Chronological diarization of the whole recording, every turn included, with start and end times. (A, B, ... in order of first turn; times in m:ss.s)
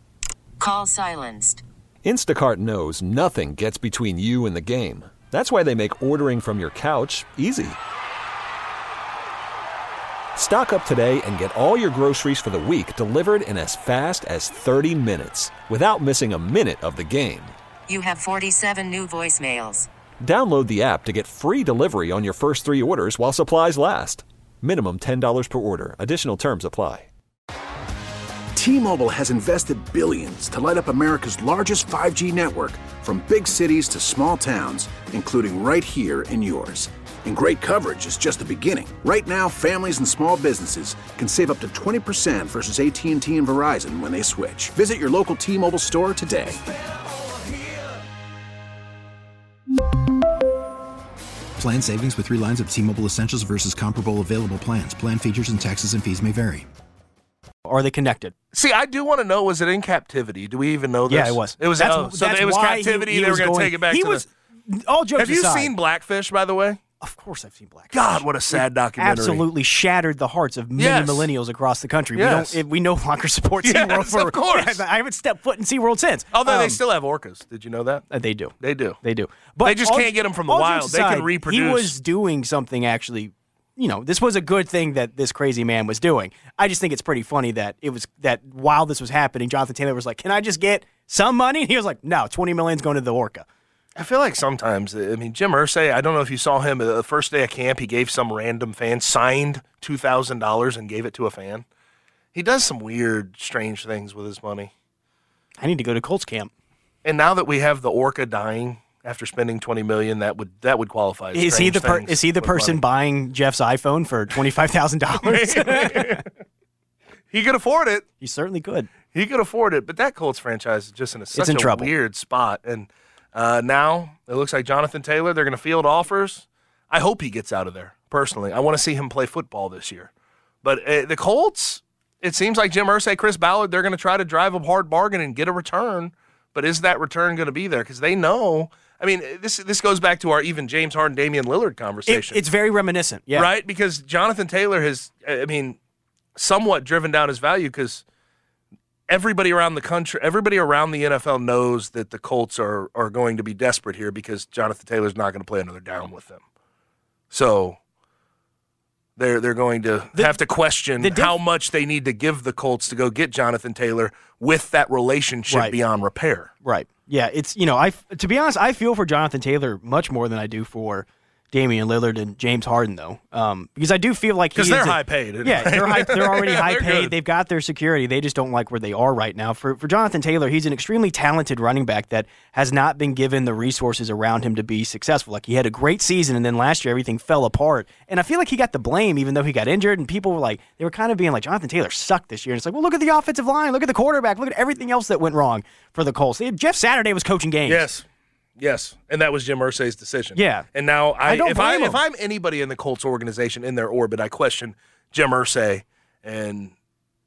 0:00.6-0:01.6 A
0:02.0-0:07.8 B
0:10.4-0:17.5 B
0:17.9-0:19.9 A
0:20.2-0:27.1 B
0:28.6-0:46.6 C
0:51.6-0:56.7 D
0:57.6-0:58.3 E
0:58.5-1:04.2 F
1:01.1-1:05.7 E
1:05.2-1:06.8 F
1:07.0-1:16.8 E
1:07.9-1:09.4 F
1:10.8-1:11.3 F
1:12.1-1:12.6 F
1:13.6-1:14.8 F
1:16.3-1:18.0 F
1:18.1-1:33.4 E
1:18.6-1:19.0 F
1:19.6-1:21.9 F
1:34.0-1:41.6 F
1:42.3-1:44.7 F
1:45.6-1:46.5 E
1:47.0-1:52.8 F
1:51.3-1:56.2 E
1:55.2-1:56.2 F
1:57.3-1:58.0 F
1:58.2-1:58.9 E
1:59.1-2:10.1 F
2:01.3-2:01.9 E
2:10.6-2:22.4 F
2:22.0-2:23.5 E
2:23.3-2:25.8 F
2:26.4-2:28.0 F
2:29.1-2:36.4 F
2:37.3-2:37.8 F
2:39.2-2:46.5 F
2:40.1-2:40.4 E
2:41.0-2:41.4 E
2:45.5-2:45.7 E
2:46.6-3:17.8 E
2:54.5-2:57.1 F
3:17.6-3:18.0 F
3:18.6-3:26.7 F
3:20.3-3:20.7 E
3:21.2-3:22.0 E